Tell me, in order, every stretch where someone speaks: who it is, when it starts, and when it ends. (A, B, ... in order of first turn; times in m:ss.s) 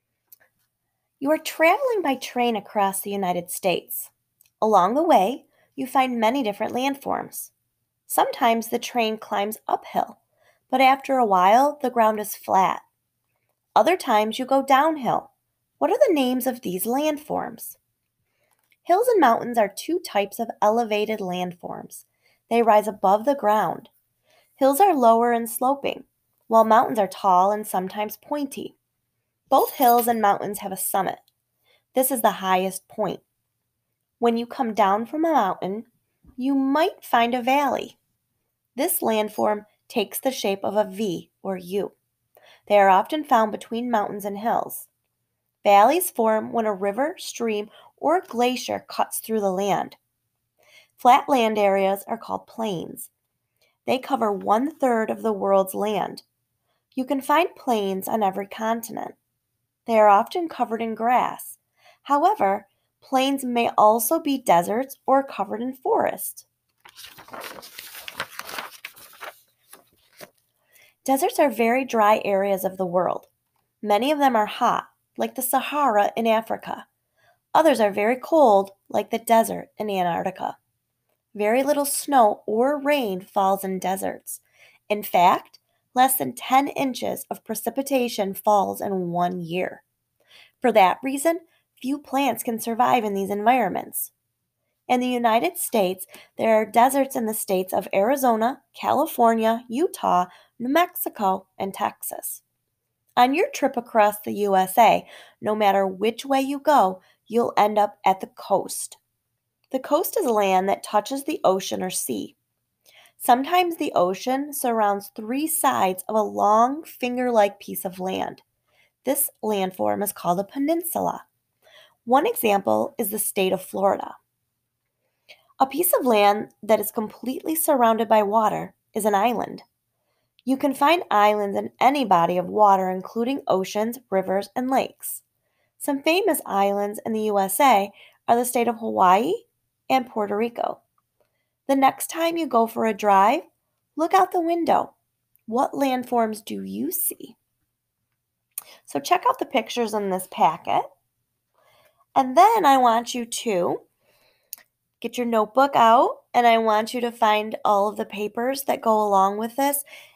0:01.2-0:07.5 A
0:08.1-0:10.2 A
0:10.7-0:12.8 A
0:13.8-0:17.8 A
0:18.8-0:23.9 A
0:24.6-0:28.8 A
0:29.5-0:31.2 A
0:31.9-0:33.2 A
0:34.2-0:35.9 A
0:36.4-0:38.0 A
0:38.8-0:42.0 A
0:42.7-0:44.9 A
0:45.6-0:50.0 A
0:51.0-0:53.1 A
0:53.8-0:56.2 A
0:56.9-0:59.2 A
0:59.9-1:06.5 A
1:11.0-1:13.3 A
1:13.8-1:16.9 A
1:17.5-1:20.6 A
1:21.3-1:29.8 A
1:30.6-1:34.1 A
1:34.9-1:42.4 A
1:43.2-1:49.0 A
1:49.7-1:52.4 A
1:53.2-1:58.4 A
1:59.0-2:01.2 A
2:02.0-2:04.2 A
2:05.6-2:09.6 A
2:10.4-2:15.2 A
2:15.8-2:20.8 A
2:21.7-2:24.9 A
2:25.5-2:27.4 A
2:28.8-2:30.9 A
2:32.2-2:33.8 A
2:35.0-2:39.8 A